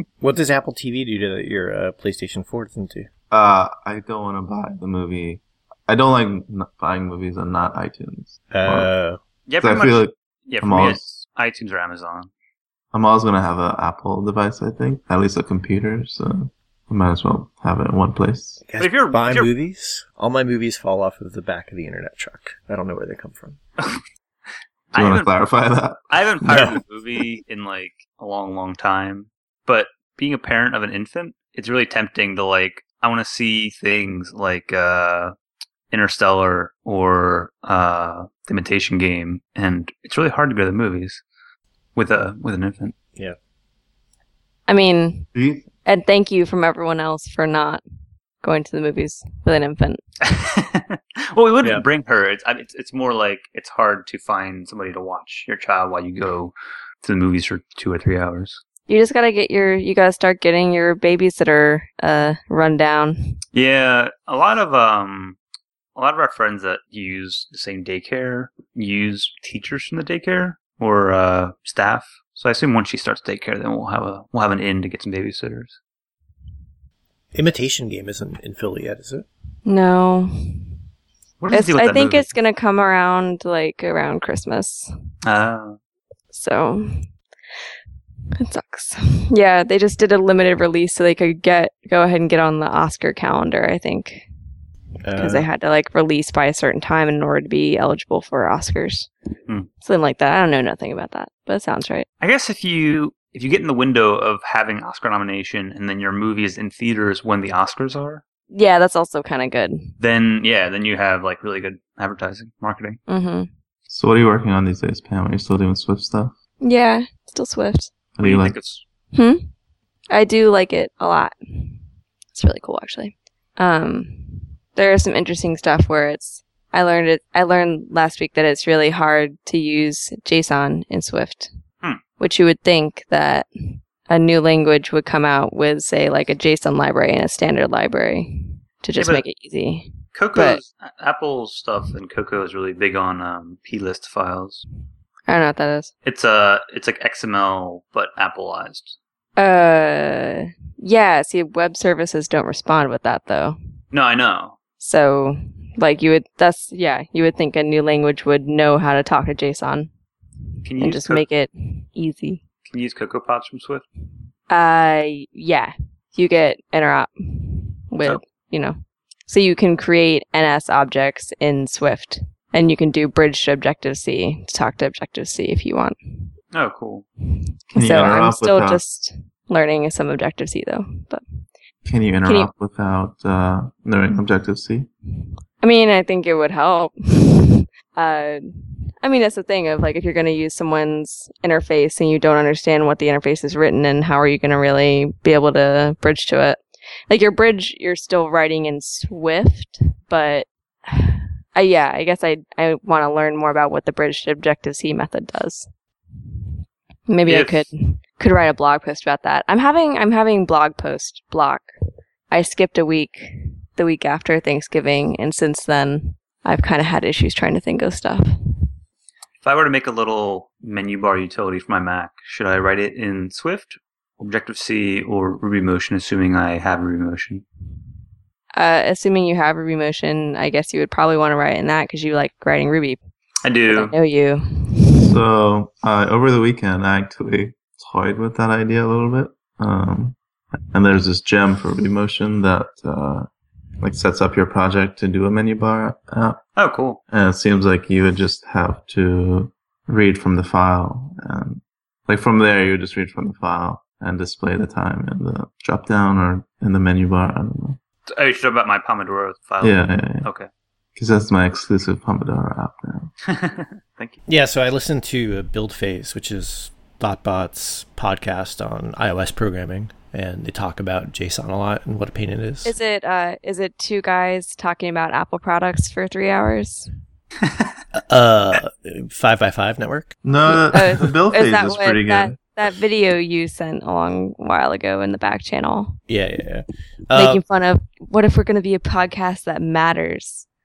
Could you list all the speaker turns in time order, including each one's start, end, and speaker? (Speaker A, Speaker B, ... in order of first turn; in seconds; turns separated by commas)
Speaker A: 0.2-3.1, Speaker B: 3.3-8.9, Speaker A: 8.5-9.2, Speaker C: 9.5-12.3, Speaker B: 9.6-11.0, Speaker B: 12.9-18.6, Speaker A: 18.6-23.6, Speaker C: 18.8-19.5, Speaker C: 24.9-25.3, Speaker B: 24.9-26.7, Speaker C: 26.1-35.3, Speaker A: 26.5-26.8, Speaker C: 35.9-41.2, Speaker C: 42.0-43.0, Speaker D: 44.7-45.3, Speaker B: 45.4-45.7, Speaker D: 45.9-47.8, Speaker D: 48.4-50.0, Speaker C: 50.2-58.6, Speaker D: 58.9-63.4, Speaker C: 63.5-65.4, Speaker C: 66.0-75.8, Speaker A: 77.3-79.3, Speaker D: 79.7-80.6, Speaker C: 81.4-82.3, Speaker D: 81.5-84.9, Speaker C: 85.2-85.8, Speaker D: 86.3-87.1, Speaker D: 88.4-94.3, Speaker A: 95.0-95.5, Speaker D: 95.2-99.1, Speaker D: 99.8-102.1, Speaker C: 102.2-108.2, Speaker D: 108.5-109.9, Speaker C: 110.0-113.0, Speaker D: 113.1-113.5, Speaker B: 113.9-116.3, Speaker D: 116.6-117.9, Speaker B: 118.2-118.6, Speaker C: 118.2-118.8, Speaker D: 119.1-119.5, Speaker D: 120.1-121.8, Speaker D: 122.3-131.5, Speaker D: 132.2-133.5, Speaker D: 134.1-140.6, Speaker C: 139.0-139.2, Speaker C: 140.1-144.6, Speaker D: 145.3-145.9, Speaker C: 146.1-149.0, Speaker D: 149.4-153.6, Speaker C: 153.9-154.6, Speaker D: 154.8-159.9, Speaker C: 160.6-161.2, Speaker D: 160.8-162.4, Speaker C: 162.7-163.8, Speaker D: 164.5-168.8, Speaker D: 169.3-176.3, Speaker C: 176.5-177.1, Speaker D: 177.7-181.2, Speaker B: 177.8-178.8, Speaker B: 181.8-184.9, Speaker D: 182.3-182.5, Speaker D: 185.6-205.7, Speaker D: 207.1-211.7, Speaker C: 207.3-207.7, Speaker D: 212.3-218.6, Speaker C: 219.4-227.4, Speaker D: 228.6-233.0, Speaker C: 233.4-233.9, Speaker D: 233.7-235.2, Speaker B: 235.0-240.2, Speaker B: 240.7-243.3, Speaker B: 243.8-246.4, Speaker C: 246.6-247.0, Speaker B: 247.1-257.8, Speaker C: 258.1-260.5, Speaker B: 259.6-260.3, Speaker B: 261.0-263.1, Speaker C: 263.3-264.2, Speaker A: 264.3-272.8, Speaker D: 272.6-276.9, Speaker A: 277.9-280.1, Speaker B: 280.2-282.4, Speaker D: 280.5-286.0, Speaker A: 286.1-287.4, Speaker D: 287.1-290.5